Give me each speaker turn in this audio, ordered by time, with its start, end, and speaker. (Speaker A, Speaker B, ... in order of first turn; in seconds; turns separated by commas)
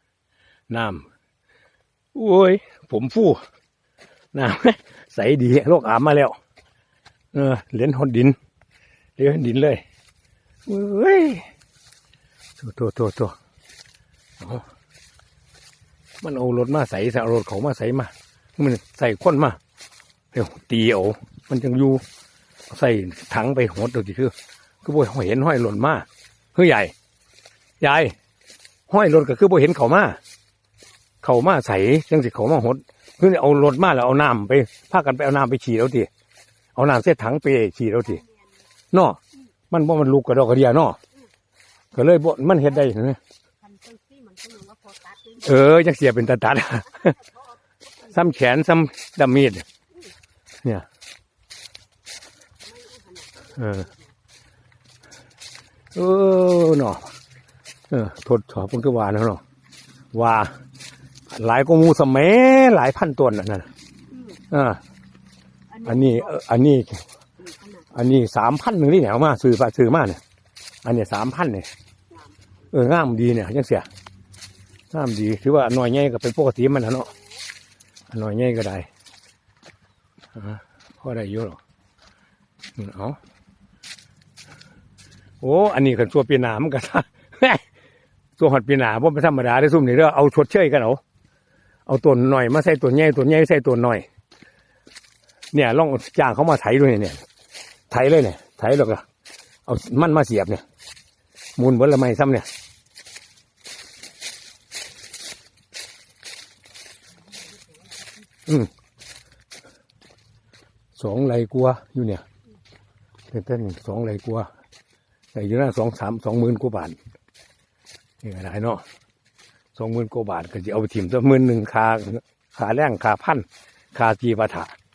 Speaker A: 0.7-1.1, Speaker A: 2.1-3.4, Speaker A: 4.3-6.4, Speaker A: 7.3-8.4, Speaker A: 9.2-9.8, Speaker A: 10.7-11.5, Speaker A: 12.6-13.4, Speaker A: 14.4-14.7, Speaker A: 16.2-19.6, Speaker A: 20.3-22.0, Speaker A: 22.7-26.9, Speaker A: 27.8-28.1, Speaker A: 28.9-30.2, Speaker A: 31.2-36.1, Speaker A: 36.8-38.2, Speaker B: 38.2-38.5, Speaker A: 38.9-39.2, Speaker A: 39.7-41.0, Speaker A: 41.9-43.2, Speaker B: 43.6-45.7, Speaker A: 45.4-47.1, Speaker B: 46.9-48.2, Speaker A: 48.1-49.7, Speaker B: 52.6-54.1, Speaker A: 53.6-53.9, Speaker A: 55.9-57.1, Speaker A: 57.9-59.4, Speaker A: 60.1-60.5, Speaker A: 61.3-63.7, Speaker B: 64.1-64.4, Speaker A: 64.5-64.8, Speaker B: 65.7-66.4, Speaker A: 65.8-67.0, Speaker B: 67.4-67.9, Speaker A: 67.9-70.2, Speaker A: 70.8-71.7, Speaker B: 72.1-72.4, Speaker A: 72.7-73.9, Speaker A: 74.9-77.1, Speaker A: 78.1-78.9, Speaker A: 80.3-81.6, Speaker A: 82.8-83.2, Speaker A: 85.4-87.6, Speaker A: 88.4-91.0, Speaker A: 91.9-94.1, Speaker A: 95.5-97.2, Speaker A: 97.9-99.0, Speaker A: 99.7-100.6, Speaker A: 101.6-102.5, Speaker B: 107.5-108.1, Speaker A: 111.0-112.2, Speaker A: 113.3-114.5, Speaker A: 115.3-117.0, Speaker A: 118.2-118.8, Speaker A: 119.8-124.8